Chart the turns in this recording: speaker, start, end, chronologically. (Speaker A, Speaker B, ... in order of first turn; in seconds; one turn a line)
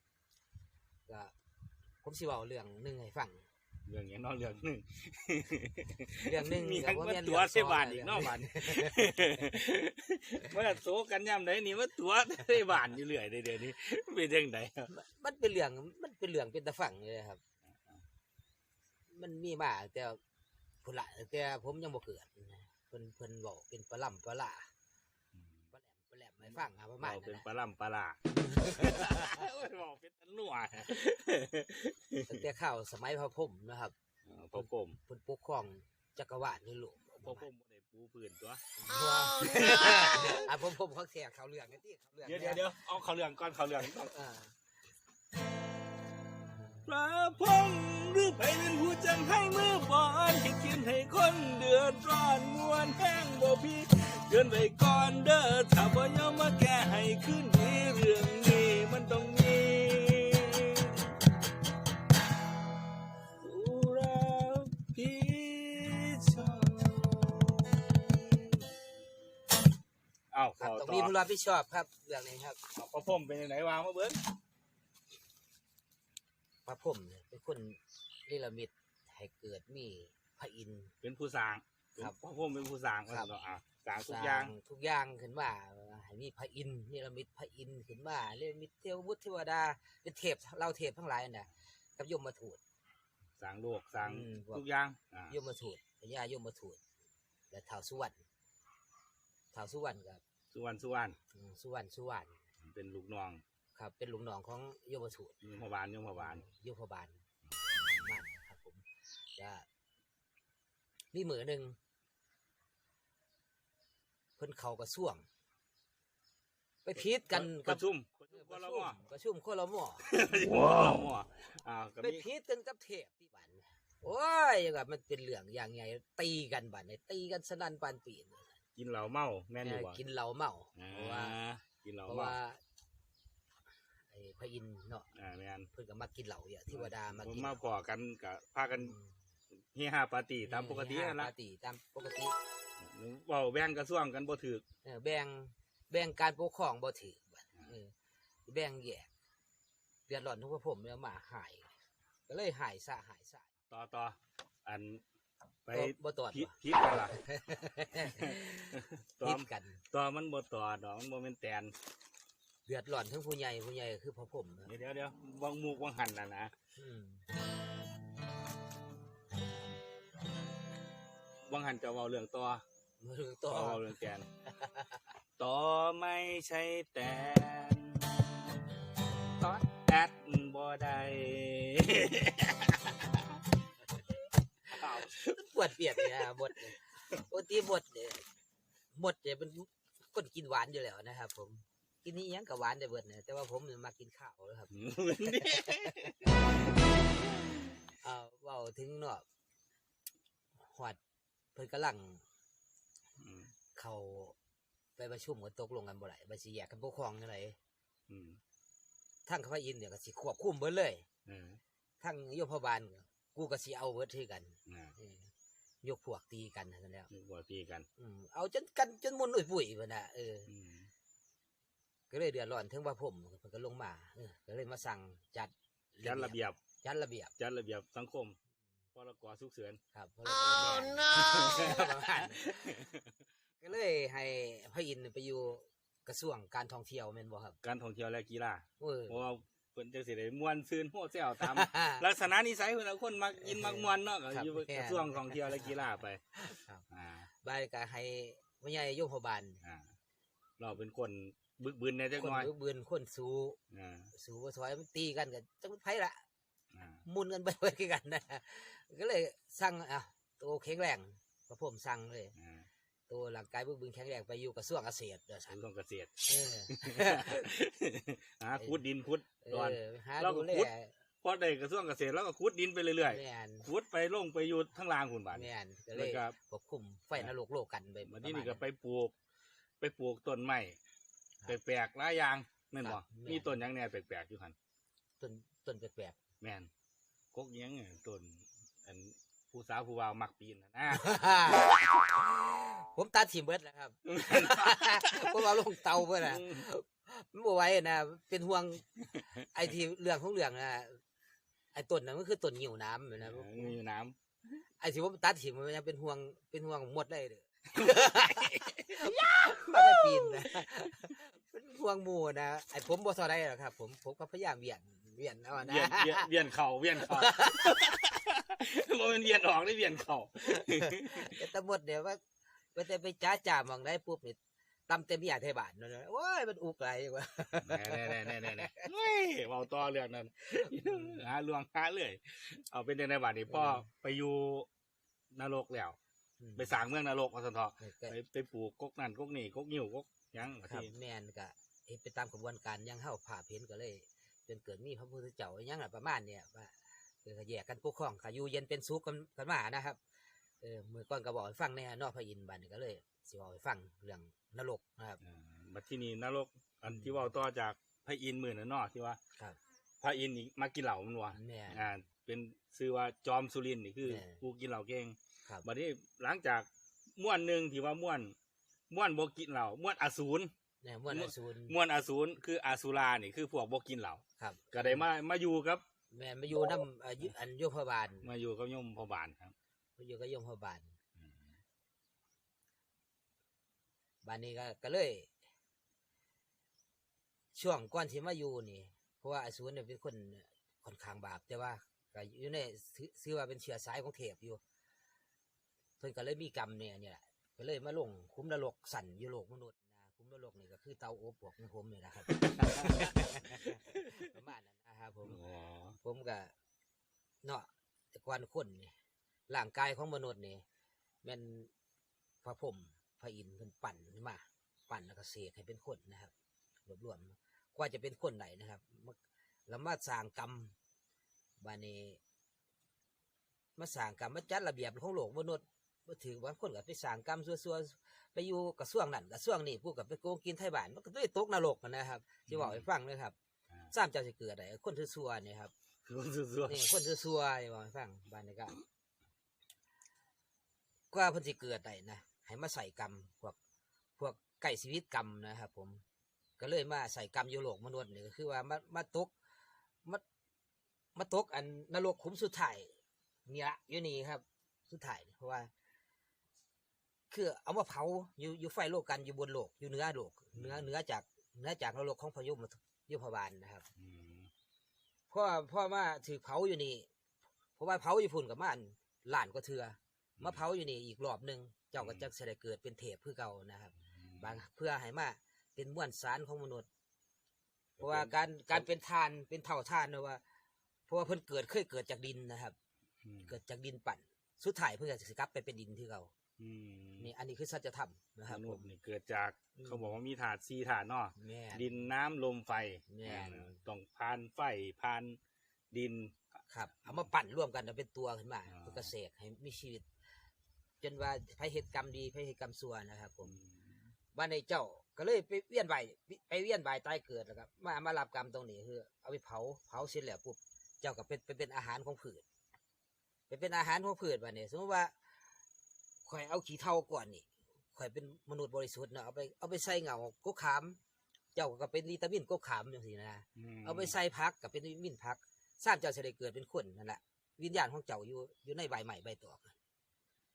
Speaker A: 1.1-1.3
Speaker A: 2.0-3.5
Speaker B: 3.9-14.9
Speaker A: 6.2-9.4
Speaker A: 14.9-17.4
Speaker B: 17.7-18.0
Speaker A: 19.1-20.2
Speaker A: 20.8-24.7
Speaker B: 25.3-25.7
Speaker A: 25.7-27.4
Speaker B: 27.0-32.4
Speaker A: 28.3-29.4
Speaker A: 32.2-34.0
Speaker B: 34.2-35.0
Speaker A: 34.5-37.5
Speaker B: 37.2-38.6
Speaker A: 38.8-42.6
Speaker B: 39.5-40.5
Speaker B: 42.3-44.2
Speaker A: 44.0-44.5
Speaker A: 46.5-46.9
Speaker B: 46.9-61.2
Speaker B: 63.4-68.7
Speaker B: 70.3-71.1
Speaker A: 70.6-72.6
Speaker B: 72.8-74.2
Speaker A: 76.7-80.9
Speaker B: 81.0-84.6
Speaker A: 84.0-92.6
Speaker B: 93.4-95.4
Speaker A: 94.0-94.6
Speaker A: 95.3-96.8
Speaker A: 97.5-98.2
Speaker A: 99.5-100.2
Speaker B: 100.5-101.2
Speaker A: 101.3-102.4
Speaker B: 102.7-103.4
Speaker A: 103.8-105.4
Speaker B: 105.4-106.4
Speaker A: 106.2-107.2
Speaker A: 107.8-109.7
Speaker A: 111.1-111.8
Speaker A: 114.4-115.2
Speaker A: 116.8-120.1
Speaker B: 117.0-119.0
Speaker B: 120.0-122.2
Speaker A: 122.0-128.5
Speaker B: 128.8-130.0
Speaker A: 129.6-131.4
Speaker B: 130.8-132.4
Speaker A: 132.1-132.6
Speaker A: 134.1-135.1
Speaker B: 135.1-135.7
Speaker A: 135.7-137.6
Speaker B: 136.7-139.0
Speaker A: 138.7-139.2
Speaker B: 139.7-141.3
Speaker A: 140.4-142.3
Speaker B: 142.8-144.6
Speaker A: 144.8-147.9
Speaker A: 148.5-149.1
Speaker A: 150.1-151.7
Speaker A: 152.3-153.5
Speaker B: 153.7-155.0
Speaker B: 155.7-157.2
Speaker A: 155.7-156.6
Speaker A: 157.1-159.8
Speaker B: 158.0-161.8
Speaker A: 162.7-164.7
Speaker B: 164.7-166.5
Speaker A: 166.8-167.2
Speaker B: 171.5-172.6
Speaker A: 173.0-173.8
Speaker B: 173.5-174.2
Speaker A: 174.5-175.0
Speaker B: 175.4-178.6
Speaker B: 179.4-183.2
Speaker B: 184.7-185.4
Speaker A: 185.1-188.2
Speaker B: 185.9-186.6
Speaker A: 188.9-196.2
Speaker B: 194.7-196.4
Speaker A: 198.0-199.2
Speaker A: 200.7-201.0
Speaker A: 201.6-202.2
Speaker B: 203.2-203.5
Speaker A: 203.8-204.4
Speaker A: 205.0-207.6
Speaker B: 208.1-208.4
Speaker A: 209.3-211.1
Speaker B: 211.3-211.6
Speaker A: 212.0-215.3
Speaker B: 214.7-215.0
Speaker A: 215.8-217.1
Speaker B: 217.1-217.9
Speaker A: 218.0-220.5
Speaker B: 220.5-220.9
Speaker A: 222.1-227.3
Speaker B: 226.0-226.6
Speaker B: 227.4-228.4
Speaker B: 228.9-229.8
Speaker A: 229.9-232.9
Speaker B: 231.2-233.1
Speaker A: 233.6-237.6
Speaker B: 237.6-246.2
Speaker A: 238.8-239.2
Speaker A: 241.4-242.1
Speaker A: 243.4-245.8
Speaker A: 246.3-246.8
Speaker B: 246.9-247.3
Speaker A: 247.4-249.6
Speaker B: 249.6-249.9
Speaker B: 250.6-252.5
Speaker A: 252.2-253.6
Speaker B: 253.7-254.1
Speaker A: 254.1-256.2
Speaker B: 256.7-257.0
Speaker A: 257.1-262.4
Speaker B: 262.4-262.7
Speaker A: 263.1-265.6
Speaker B: 265.5-270.7
Speaker A: 266.3-267.5
Speaker A: 269.4-270.9
Speaker B: 271.2-276.4
Speaker A: 273.1-273.7
Speaker A: 275.3-278.6
Speaker B: 278.1-279.1
Speaker B: 279.8-280.8
Speaker B: 281.5-284.6
Speaker A: 282.8-283.6
Speaker A: 285.2-286.2
Speaker B: 286.4-286.7
Speaker B: 287.3-291.2
Speaker A: 290.9-301.0
Speaker B: 294.1-296.6
Speaker A: 301.7-303.8
Speaker B: 303.2-304.2
Speaker A: 304.8-316.3
Speaker B: 307.8-310.7
Speaker B: 315.6-321.4
Speaker A: 317.0-317.9
Speaker A: 320.5-322.2
Speaker A: 322.7-324.4
Speaker A: 324.9-328.9
Speaker B: 327.6-334.7
Speaker A: 330.8-331.2
Speaker A: 333.5-333.9
Speaker B: 335.3-336.0
Speaker A: 336.4-336.8
Speaker B: 336.6-340.9
Speaker A: 337.8-338.2
Speaker A: 340.6-350.0
Speaker A: 350.6-355.2
Speaker B: 355.2-359.2
Speaker A: 356.9-357.1
Speaker B: 360.0-368.4
Speaker A: 361.3-361.8
Speaker A: 364.1-364.4
Speaker B: 368.9-370.5
Speaker A: 370.8-371.8
Speaker B: 371.1-375.8
Speaker A: 374.4-375.0
Speaker A: 376.1-378.3
Speaker B: 376.5-376.8
Speaker B: 378.2-379.5
Speaker A: 380.0-381.0
Speaker B: 381.2-381.5
Speaker A: 384.2-385.3
Speaker A: 387.5-394.6
Speaker A: 396.0-405.4
Speaker B: 402.3-404.3
Speaker B: 405.2-406.0
Speaker A: 406.0-406.5
Speaker A: 407.4-408.9
Speaker A: 409.5-410.6
Speaker A: 411.2-411.7
Speaker A: 412.4-416.3
Speaker A: 416.9-420.8
Speaker A: 421.6-422.2
Speaker A: 423.8-433.4
Speaker B: 432.5-432.9
Speaker A: 433.9-435.7
Speaker B: 436.1-437.0
Speaker A: 436.7-438.8
Speaker A: 441.1-443.6
Speaker A: 444.2-446.0
Speaker A: 446.6-449.3
Speaker A: 451.1-452.9
Speaker A: 453.5-455.7
Speaker A: 457.3-463.9
Speaker B: 460.6-460.9
Speaker B: 464.0-464.5
Speaker A: 465.3-467.1
Speaker A: 467.8-476.9
Speaker B: 470.4-470.6
Speaker B: 472.0-472.3
Speaker B: 474.1-474.6
Speaker B: 478.0-478.9
Speaker A: 478.0-480.4
Speaker A: 481.1-482.8
Speaker B: 483.2-483.6
Speaker A: 483.5-486.3
Speaker B: 486.6-487.3
Speaker A: 487.2-488.9
Speaker B: 488.5-495.4
Speaker A: 489.8-490.2
Speaker A: 491.4-491.9
Speaker A: 493.1-493.8
Speaker B: 495.9-496.4
Speaker A: 496.7-500.1
Speaker B: 498.7-499.1
Speaker A: 501.0-503.6
Speaker B: 503.4-504.0
Speaker A: 504.3-512.5
Speaker A: 513.5-515.1
Speaker A: 516.3-521.0
Speaker A: 521.5-529.8
Speaker B: 523.6-524.2